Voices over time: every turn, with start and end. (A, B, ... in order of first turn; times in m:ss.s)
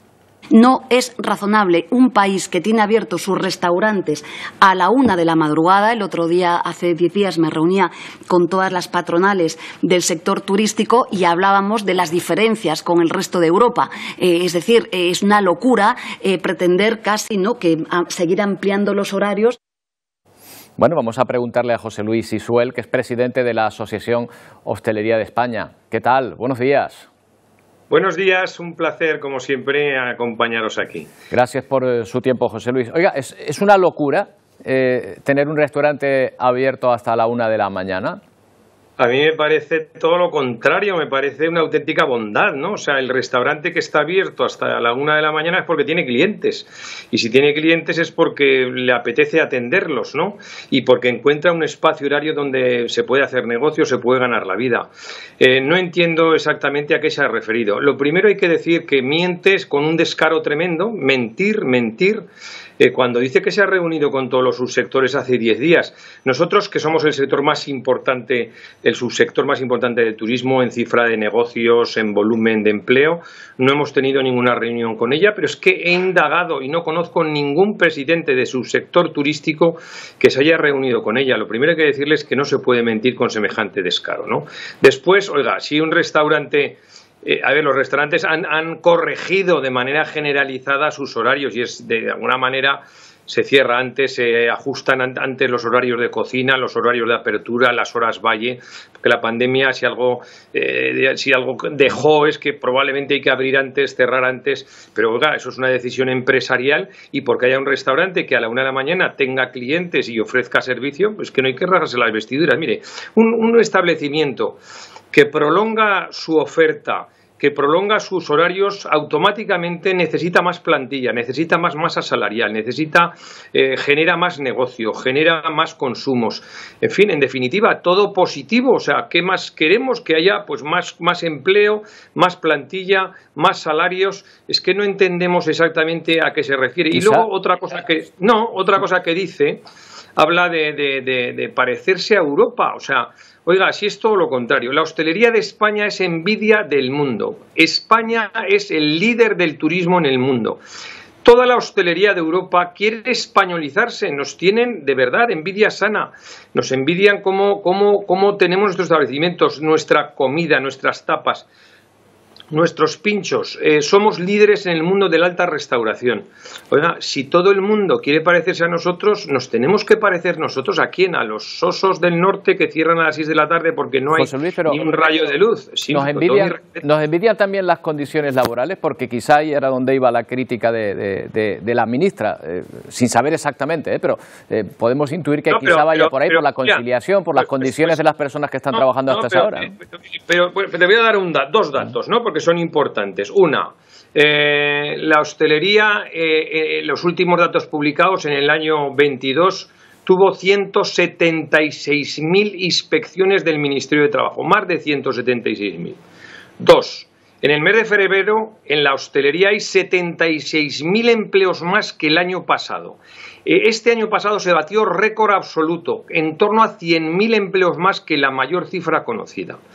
0:00.5-0:19.6 A
0:20.8-0:27.1 B
0:27.9-0:31.1 C
0:31.3-0:38.2 B
0:39.0-0:54.9 C
0:55.4-1:02.2 C
1:02.8-1:54.6 C
1:55.1-2:19.6 C
2:16.9-2:17.3 B
2:20.2-2:30.6 C
2:31.2-2:41.5 C
2:42.5-2:56.8 C
2:54.1-2:54.8 B
2:55.9-3:09.7 B
3:05.5-3:06.8 C
3:07.4-3:08.0 C
3:08.7-3:26.0 C
3:26.6-3:39.6 C